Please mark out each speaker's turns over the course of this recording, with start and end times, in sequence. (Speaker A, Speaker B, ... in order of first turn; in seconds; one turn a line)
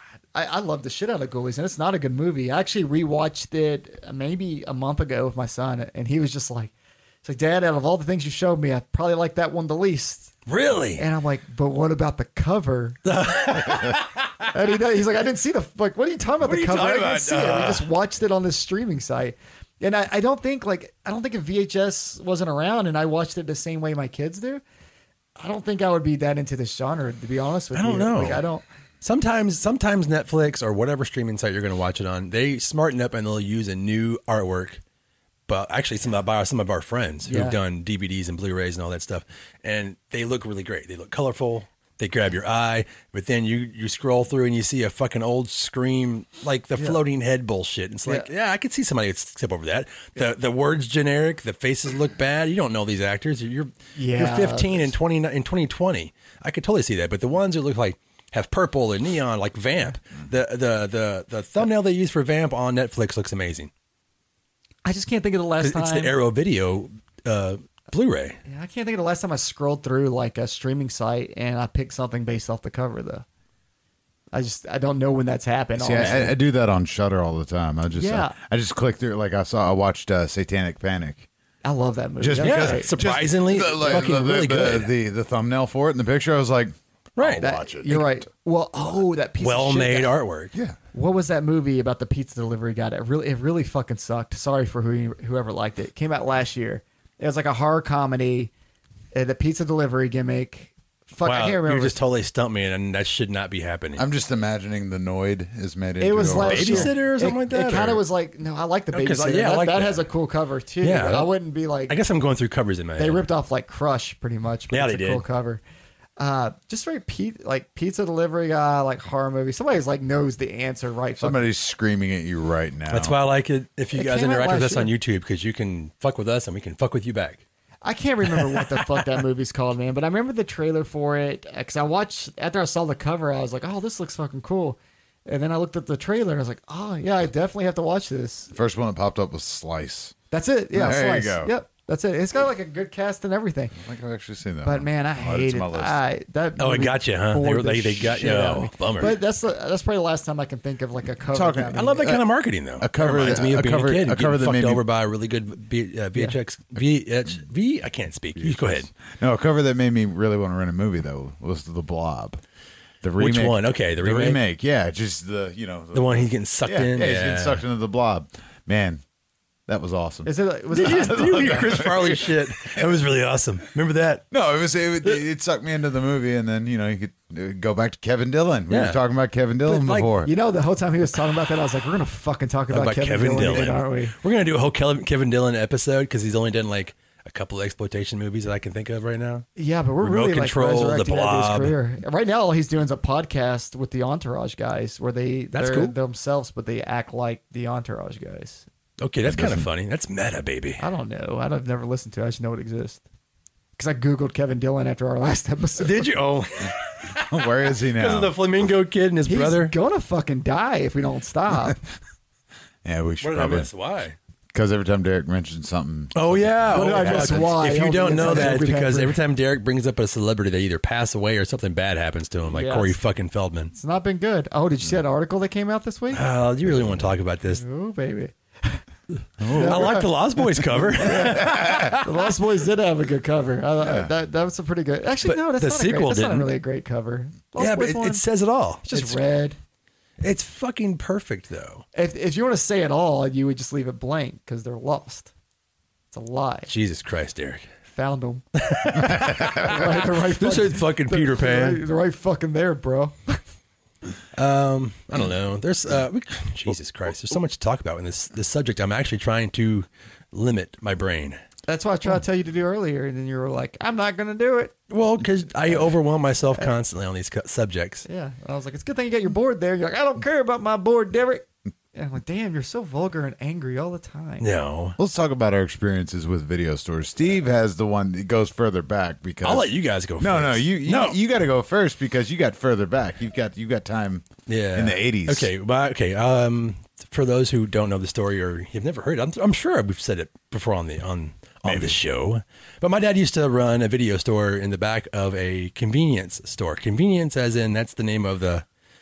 Speaker A: 0.3-6.7
Speaker A: 7.2-10.3
Speaker B: 10.5-11.0
Speaker A: 11.0-13.0
Speaker B: 13.0-14.5
Speaker A: 13.6-13.9
Speaker A: 14.5-24.6
Speaker B: 16.4-17.9
Speaker A: 25.4-28.6
Speaker B: 27.7-28.4
Speaker B: 29.0-34.8
Speaker B: 35.5-63.7
Speaker A: 37.2-37.6
Speaker A: 54.0-54.9
Speaker A: 64.8-66.1
Speaker B: 65.6-68.4
Speaker A: 68.5-73.2
Speaker A: 74.3-76.3
Speaker C: 75.8-81.3
Speaker A: 77.9-78.3
Speaker A: 81.6-82.9
Speaker C: 82.2-88.2
Speaker B: 82.4-84.9
Speaker B: 87.2-87.4
Speaker A: 87.4-90.1
Speaker B: 89.4-90.5
Speaker A: 90.9-98.5
Speaker A: 99.1-102.0
Speaker B: 101.2-104.0
Speaker C: 104.0-106.9
Speaker A: 106.0-111.9
Speaker B: 106.3-108.0
Speaker B: 108.9-110.0
Speaker B: 110.8-111.3
Speaker B: 111.9-113.2
Speaker A: 113.0-115.6
Speaker B: 114.7-115.2
Speaker A: 116.2-121.4
Speaker C: 121.2-123.1
Speaker B: 122.9-127.4
Speaker A: 123.9-124.9
Speaker A: 127.8-138.5
Speaker B: 128.3-129.0
Speaker C: 138.5-140.1
Speaker A: 140.3-143.8
Speaker C: 140.7-141.5
Speaker C: 143.8-146.0
Speaker A: 144.6-152.2
Speaker B: 146.6-149.2
Speaker C: 151.3-152.2
Speaker B: 151.7-158.9
Speaker C: 152.8-154.8
Speaker C: 158.4-162.4
Speaker C: 163.0-169.0
Speaker B: 163.2-164.4
Speaker B: 165.9-167.6
Speaker C: 169.7-170.3
Speaker A: 170.2-171.6
Speaker B: 170.7-174.2
Speaker C: 170.8-172.9
Speaker C: 174.3-180.3
Speaker B: 178.7-179.0
Speaker A: 179.7-184.1
Speaker B: 182.7-189.5
Speaker A: 189.6-198.7
Speaker B: 190.0-191.7
Speaker B: 195.5-195.9
Speaker B: 199.0-200.8
Speaker C: 199.2-199.7
Speaker A: 200.8-203.0
Speaker A: 203.8-206.1
Speaker B: 205.8-209.7
Speaker C: 207.1-208.3
Speaker A: 209.3-211.8
Speaker C: 212.8-213.7
Speaker B: 213.2-214.2
Speaker C: 214.5-217.6
Speaker B: 216.1-223.7
Speaker A: 216.7-219.2
Speaker A: 222.5-223.0
Speaker A: 223.7-226.2
Speaker B: 226.1-227.6
Speaker A: 227.5-228.8
Speaker C: 229.4-229.9
Speaker B: 229.4-232.3
Speaker A: 229.5-238.2
Speaker C: 231.1-232.0
Speaker C: 233.8-234.1
Speaker B: 235.2-236.5
Speaker B: 237.6-239.2
Speaker A: 238.9-239.6
Speaker B: 240.2-241.8
Speaker A: 241.9-245.3
Speaker A: 246.1-246.7
Speaker B: 246.7-247.6
Speaker A: 247.9-253.4
Speaker B: 248.6-251.8
Speaker C: 249.0-249.8
Speaker B: 254.3-261.4
Speaker A: 261.7-264.7
Speaker B: 264.9-268.1
Speaker A: 268.1-274.4
Speaker B: 274.4-275.0
Speaker C: 275.0-285.5
Speaker B: 279.4-281.2
Speaker B: 284.5-298.6
Speaker C: 291.6-292.0